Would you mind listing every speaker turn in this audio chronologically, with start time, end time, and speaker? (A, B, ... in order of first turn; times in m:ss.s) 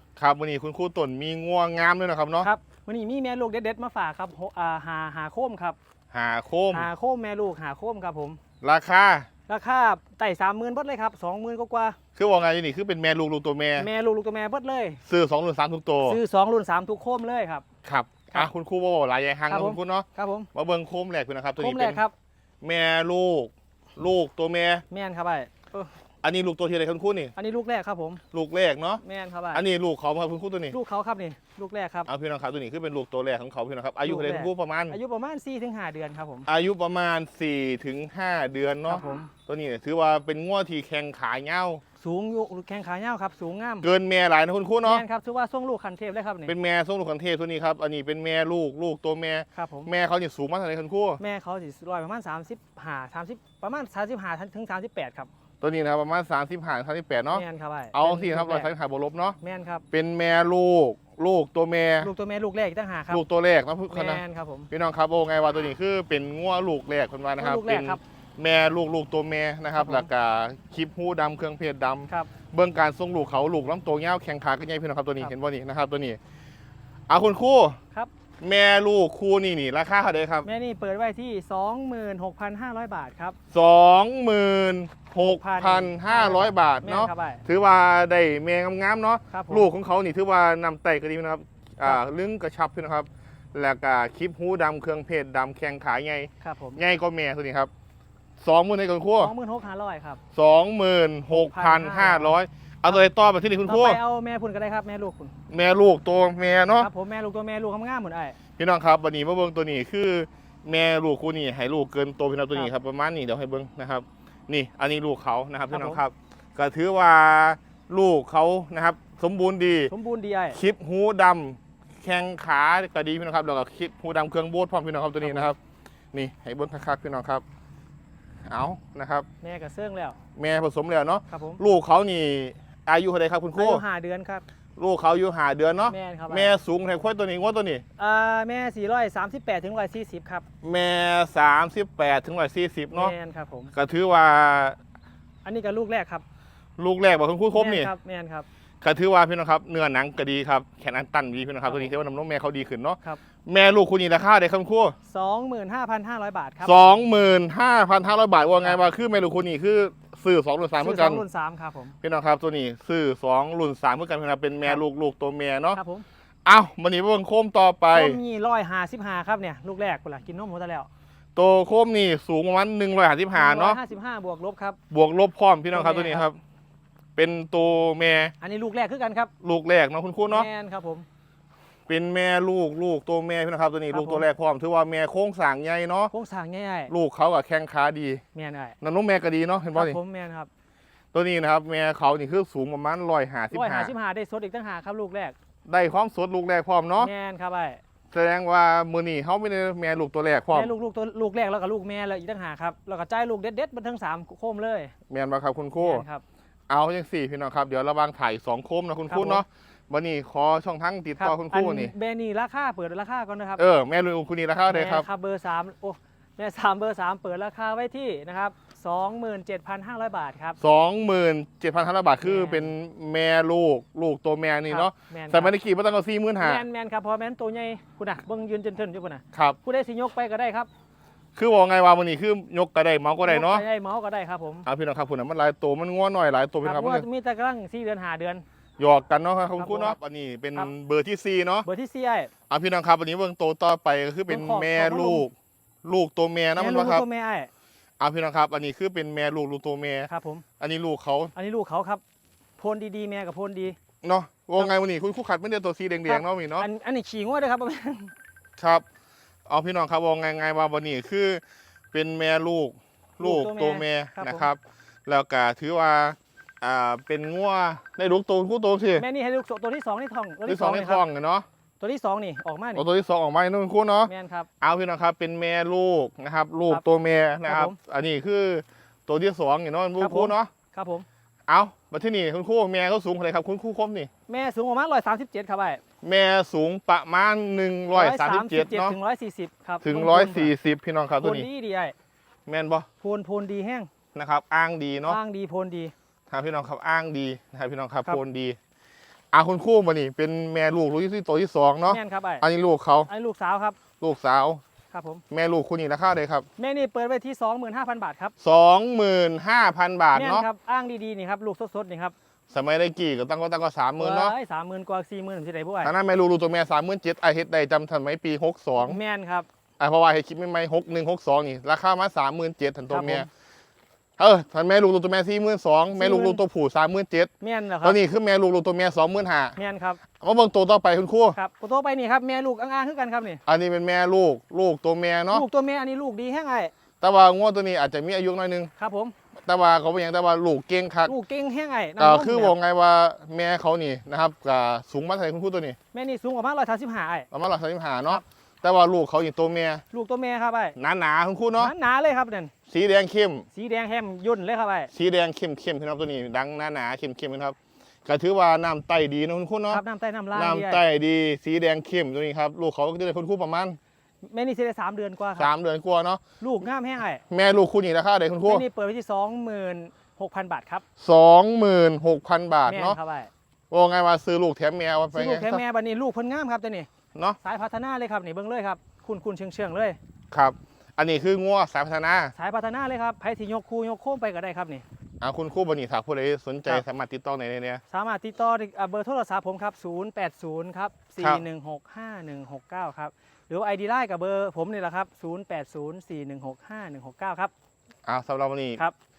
0:00.2-0:02.5 A
0:02.4-0:05.8 B
0:06.1-0:06.9 A
0:06.7-0:08.4 B
0:08.6-0:09.3 A
0:09.5-0:12.0 B
0:12.2-0:13.9 A
0:13.8-0:15.0 B
0:15.0-0:16.2 A
0:16.0-0:17.6 B
0:17.8-0:22.0 A
0:19.5-0:20.5 B
0:21.6-0:22.1 B
0:22.6-0:24.8 A
0:24.9-0:25.9 B
0:26.2-0:27.3 A
0:27.4-0:28.2 B
0:28.3-0:29.0 A
0:29.0-0:29.6 B
0:29.5-0:30.8 A
0:30.7-0:32.1 B
0:32.1-0:35.0 A
0:34.0-0:36.5 B
0:36.5-0:41.8 A
0:38.9-0:39.3 B
0:42.0-0:43.9 B
0:43.8-0:45.0 A
0:44.8-0:46.5 B
0:46.5-0:51.2 A
0:49.6-0:49.9 B
0:51.2-0:55.3 B
0:55.6-0:59.4 A
0:57.3-0:58.7 B
0:59.4-0:59.8 B
0:59.9-1:02.1 A
1:02.0-1:03.2 B
1:03.1-1:16.2 A
1:03.9-1:04.7 B
1:07.4-1:08.0 B
1:09.8-1:10.1 B
1:17.1-1:17.8 A
1:18.4-1:20.5 A
1:20.4-1:23.4 B
1:23.5-1:37.7 A
1:25.2-1:27.4 B
1:29.3-1:29.7 B
1:36.4-1:36.8 B
1:38.4-1:39.3 A
1:39.2-1:40.2 B
1:40.3-1:44.0 A
1:41.3-1:42.4 B
1:43.7-1:45.3 B
1:45.5-1:46.9 A
1:46.8-1:48.4 B
1:48.6-1:59.9 A
1:55.7-1:56.0 B
1:59.9-2:00.6 B
2:00.5-2:05.6 A
2:05.2-2:05.5 B
2:06.1-2:07.4 A
2:08.5-2:09.3 A
2:09.4-2:10.2 B
2:10.4-2:13.8 A
2:11.3-2:11.6 B
2:13.6-2:14.4 B
2:14.8-2:17.8 A
2:15.9-2:16.5 B
2:18.0-2:20.4 B
2:20.6-2:23.1 A
2:22.9-2:23.7 B
2:23.7-2:24.8 A
2:25.4-2:26.2 B
2:26.8-2:27.9 A
2:27.5-2:28.5 B
2:28.8-2:35.0 A
2:31.6-2:31.9 B
2:35.1-2:37.0 B
2:36.6-2:41.2 A
2:40.8-2:42.0 B
2:42.0-2:45.8 A
2:45.7-2:46.1 B
2:46.4-2:48.2 A
2:47.9-2:50.9 B
2:51.4-2:53.8 A
2:53.4-2:54.8 B
2:54.9-2:56.4 A
2:55.7-2:56.3 B
2:57.2-2:58.3 A
2:58.4-2:59.3 B
2:59.4-3:00.5 A
3:00.3-3:01.1 B
3:01.9-3:06.1 A
3:03.9-3:04.3 B
3:06.1-3:06.9 B
3:06.9-3:08.2 A
3:08.3-3:08.8 B
3:08.8-3:10.0 A
3:09.7-3:10.5 B
3:11.1-3:13.9 A
3:13.5-3:15.4 B
3:15.7-3:17.1 A
3:17.0-3:17.8 B
3:18.1-3:20.7 A
3:20.5-3:24.9 B
3:25.1-3:26.0 A
3:25.8-3:26.2 B
3:26.7-3:31.9 A
3:29.1-3:29.4 B
3:31.2-3:33.6 B
3:33.6-3:35.1 A
3:34.7-3:40.6 B
3:40.6-3:46.6 A
3:42.2-3:42.7 B
3:44.7-3:45.6 B
3:46.4-3:50.7 B
3:49.3-3:49.6 A
3:51.4-3:53.6 A
3:53.2-3:54.7 B
3:54.7-3:57.1 A
3:56.6-3:58.4 B
3:58.8-4:01.7 A
3:59.6-4:00.0 B
4:01.6-4:02.3 B
4:02.5-4:05.3 A
4:04.3-4:05.3 B
4:05.8-4:07.0 A
4:06.6-4:07.5 B
4:08.0-4:11.3 A
4:10.1-4:10.4 B
4:11.4-4:12.0 B
4:12.6-4:13.8 B
4:14.0-4:16.7 A
4:16.1-4:18.1 B
4:18.6-4:18.8 A
4:19.5-4:29.0 A
4:23.2-4:24.5 B
4:29.0-4:31.0 B
4:30.5-4:31.5 A
4:31.8-4:32.8 B
4:32.8-4:40.5 A
4:34.1-4:34.5 B
4:37.5-4:37.8 B
4:40.0-4:41.1 B
4:41.5-4:44.1 A
4:44.3-4:45.8 B
4:46.0-4:49.0 A
4:47.9-4:50.5 B
4:49.8-4:51.5 A
4:51.2-4:52.0 B
4:52.5-4:52.9 A
4:53.0-4:53.9 B
4:54.2-4:55.2 A
4:55.1-4:55.9 B
4:56.3-4:58.6 A
4:59.3-5:03.1 A
5:01.9-5:02.4 B
5:03.1-5:03.8 B
5:04.0-5:04.6 A
5:04.9-5:05.2 B
5:05.3-5:06.5 A
5:06.6-5:08.3 B
5:08.4-5:10.5 A
5:10.1-5:12.2 B
5:12.5-5:14.3 A
5:14.0-5:15.9 B
5:15.8-5:19.0 A
5:18.8-5:19.5 B
5:19.8-5:23.3 A
5:22.9-5:23.3 B
5:24.2-5:27.3 A
5:26.0-5:26.4 B
5:27.4-5:28.0 B
5:27.8-5:29.6 A
5:29.6-5:30.0 B
5:30.2-5:31.4 A
5:31.4-5:33.4 B
5:33.5-5:35.4 A
5:35.3-5:36.7 B
5:37.0-5:38.7 A
5:38.8-5:39.2 B
5:39.5-5:41.1 A
5:41.1-5:42.6 B
5:42.0-5:45.8 A
5:45.9-5:47.3 B
5:47.3-5:49.8 A
5:49.9-5:50.8 B
5:50.8-5:51.7 A
5:51.6-5:52.5 B
5:52.7-5:53.5 A
5:53.5-5:54.9 B
5:54.9-5:59.8 A
5:59.7-6:00.8 B
6:00.3-6:03.8 A
6:04.2-6:05.5 B
6:05.4-6:06.2 A
6:06.4-6:07.2 B
6:07.3-6:08.6 A
6:08.4-6:10.8 B
6:11.0-6:13.0 A
6:12.7-6:13.3 B
6:13.7-6:15.6 A
6:15.1-6:16.9 B
6:17.4-6:20.0 B
6:20.3-6:22.3 A
6:22.3-6:24.8 B
6:25.2-6:27.8 A
6:27.9-6:37.5 B
6:38.1-6:38.8 A